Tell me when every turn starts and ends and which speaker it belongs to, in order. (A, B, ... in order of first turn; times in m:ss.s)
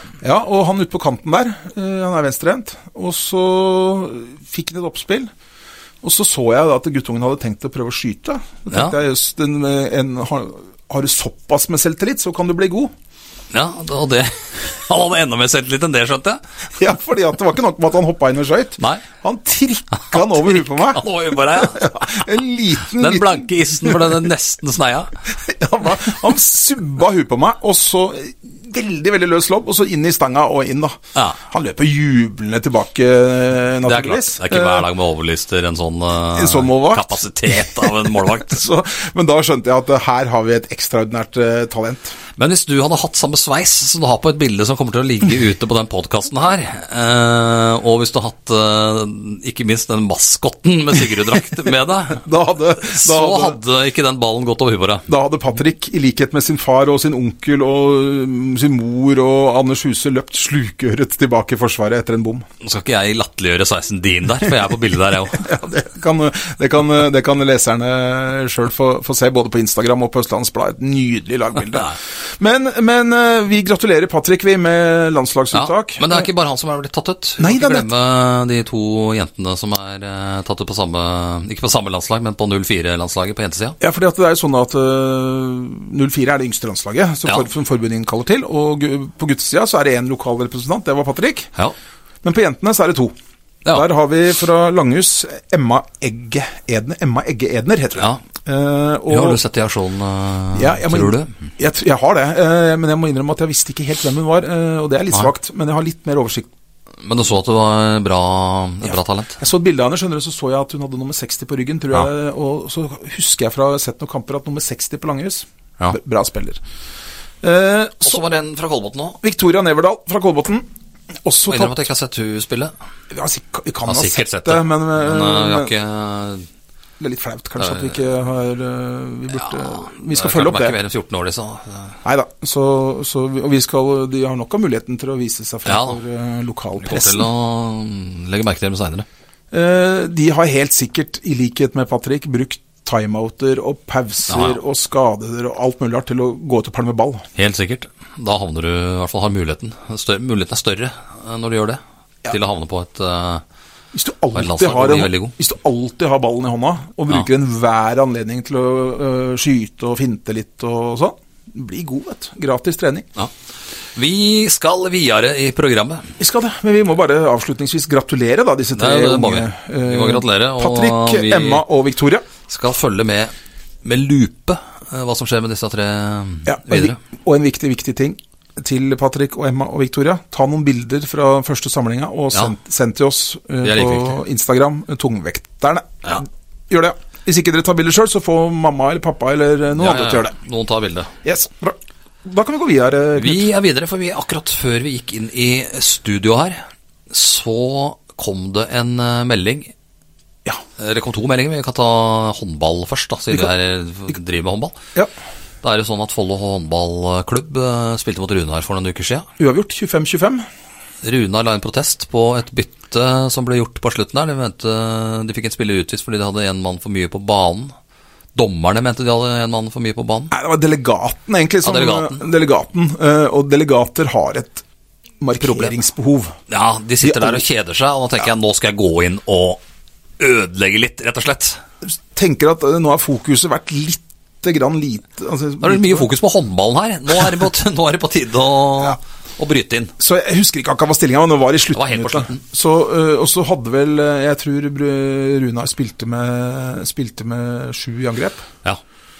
0:00.2-0:05.3 A
0:06.0-0:12.9 A
0:08.7-0:09.0 B
0:13.5-0:16.4 B
0:16.8-0:24.2 A
0:20.2-0:22.3 B
0:22.9-0:25.2 B
0:25.3-0:34.9 A
0:33.8-0:38.6 B
0:36.3-0:42.2 A
0:42.4-0:52.2 B
0:52.2-0:53.6 A
0:52.8-0:55.1 B
0:55.1-1:02.4 A
1:02.6-1:05.5 B
1:05.3-1:16.3 A
1:15.5-1:23.8 B
1:17.4-1:17.9 A
1:23.8-1:31.5 A
1:32.2-1:33.1 A
1:33.7-1:39.4 A
1:39.1-1:41.4 B
1:40.5-1:46.5 A
1:47.0-1:49.4 B
1:48.9-1:56.6 A
1:57.4-1:58.2 A
1:58.0-1:59.2 B
1:59.2-2:00.7 A
2:01.2-2:01.8 A
2:01.5-2:02.7 B
2:03.1-2:05.7 A
2:03.8-2:06.5 B
2:07.0-2:10.8 A
2:07.6-2:08.0 B
2:09.3-2:12.0 B
2:12.0-2:17.3 A
2:15.6-2:16.0 B
2:16.8-2:19.1 B
2:19.5-2:27.2 A
2:24.3-2:24.6 B
2:27.4-2:33.4 B
2:33.9-2:43.1 A
2:34.4-2:35.3 B
2:44.0-2:46.1 B
2:46.2-2:52.2 A
2:48.8-2:51.6 B
2:52.5-2:53.3 B
2:53.8-2:57.0 B
2:56.5-3:10.3 A
3:03.6-3:04.2 B
3:09.8-3:11.1 B
3:11.2-3:13.5 A
3:13.2-3:19.7 B
3:20.8-3:24.8 B
3:25.6-3:29.3 B
3:29.4-3:30.5 A
3:31.0-3:37.8 B
3:38.4-3:40.3 B
3:40.3-3:44.6 A
3:41.6-3:42.2 B
3:45.2-3:46.4 A
3:45.4-3:45.7 B
3:46.5-3:49.6 B
3:47.0-3:47.4 A
3:50.2-3:51.6 B
3:51.8-3:56.1 A
3:55.6-3:59.9 B
4:00.0-4:08.4 A
4:01.7-4:02.4 B